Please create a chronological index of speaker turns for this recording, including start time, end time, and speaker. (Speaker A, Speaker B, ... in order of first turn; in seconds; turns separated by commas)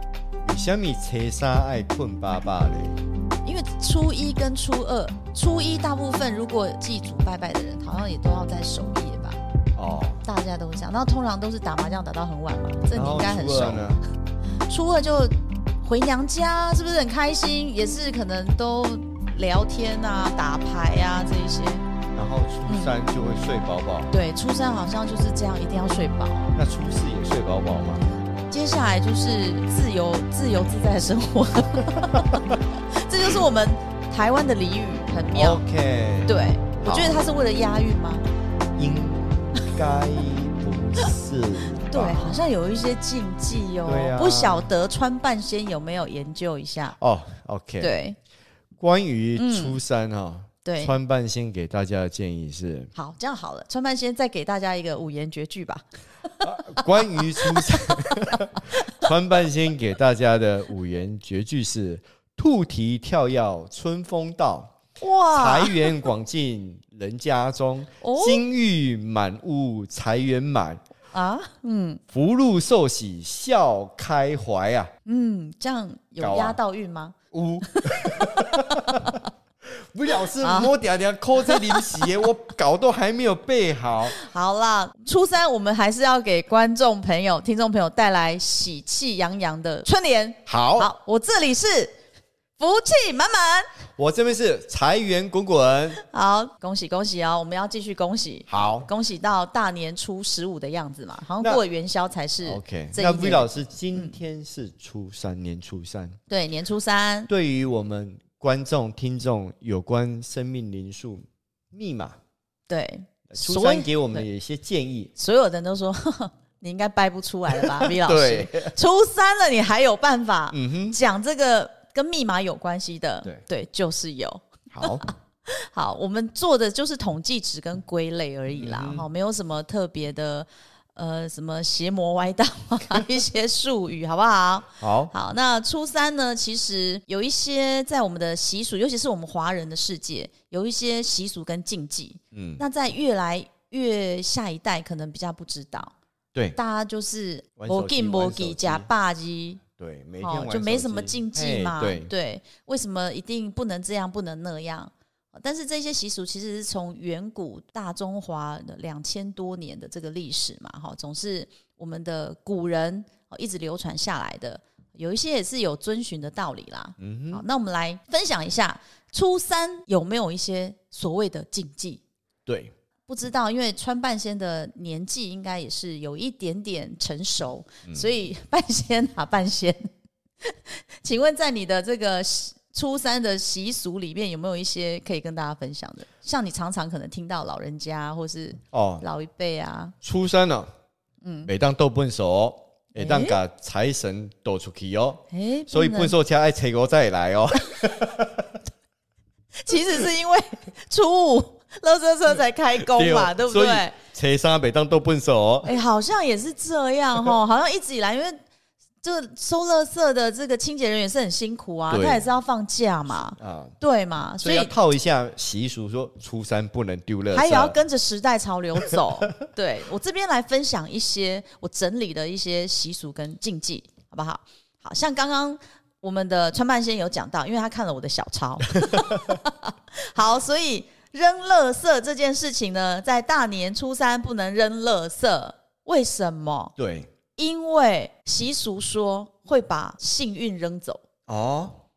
Speaker A: 0.4-3.0, Speaker B: 3.5-9.4, Speaker A: 9.8-10.2, Speaker B: 10.2-13.9, Speaker A: 12.9-14.0, Speaker B: 14.7-21.9, Speaker A: 22.1-24.1, Speaker B: 22.7-22.9, Speaker B: 24.1-26.6, Speaker A: 26.5-28.1, Speaker B: 28.5-35.6, Speaker A: 32.1-32.4, Speaker A: 35.3-37.2, Speaker B: 36.2-38.2, Speaker A: 38.8-42.5, Speaker B: 41.8-47.0, Speaker A: 43.9-44.7, Speaker A: 47.0-48.0, Speaker B: 47.8-48.2, Speaker A: 48.8-52.9, Speaker B: 49.4-49.8, Speaker B: 50.6-51.0, Speaker B: 53.0-56.4, Speaker A: 56.4-64.7, Speaker B: 57.2-59.0, Speaker B: 65.0-66.0, Speaker A: 65.3-70.8, Speaker B: 68.0-68.4, Speaker B: 71.1-72.0, Speaker A: 72.1-74.9, Speaker B: 75.1-79.2, Speaker A: 76.2-76.6, Speaker A: 77.3-84.2, Speaker B: 80.4-80.7, Speaker B: 81.5-82.0, Speaker B: 84.1-92.0, Speaker A: 90.5-90.9, Speaker B: 92.6-93.7, Speaker A: 94.0-96.0, Speaker B: 96.0-104.2, Speaker A: 98.5-98.9, Speaker A: 102.4-106.2, Speaker B: 106.3-107.3, Speaker A: 107.3-112.2, Speaker B: 112.7-114.3, Speaker A: 113.3-115.1, Speaker B: 115.2-145.9, Speaker A: 117.5-118.7, Speaker A: 120.5-121.0, Speaker A: 124.7-125.0, Speaker A: 128.6-129.1, Speaker A: 134.8-135.1, Speaker A: 142.3-142.6, Speaker B: 146.6-149.6, Speaker A: 147.6-148.9, Speaker A: 149.8-152.1, Speaker B: 150.2-172.0, Speaker A: 167.0-167.4, Speaker A: 172.5-172.7, Speaker B: 173.1-179.9, Speaker B: 180.4-189.9, Speaker A: 188.7-189.1, Speaker A: 190.0-190.7, Speaker B: 191.2-191.5, Speaker A: 191.4-198.6, Speaker B: 193.0-193.4, Speaker B: 195.3-196.2, Speaker B: 199.6-203.9, Speaker A: 202.8-205.7, Speaker B: 205.6-208.4, Speaker B: 209.0-214.7, Speaker A: 211.9-212.3, Speaker A: 213.3-213.8, Speaker A: 214.4-217.8, Speaker B: 217.3-236.7, Speaker A: 218.9-219.4, Speaker A: 228.8-229.4, Speaker A: 236.8-237.1, Speaker B: 237.4-241.0, Speaker A: 241.3-241.8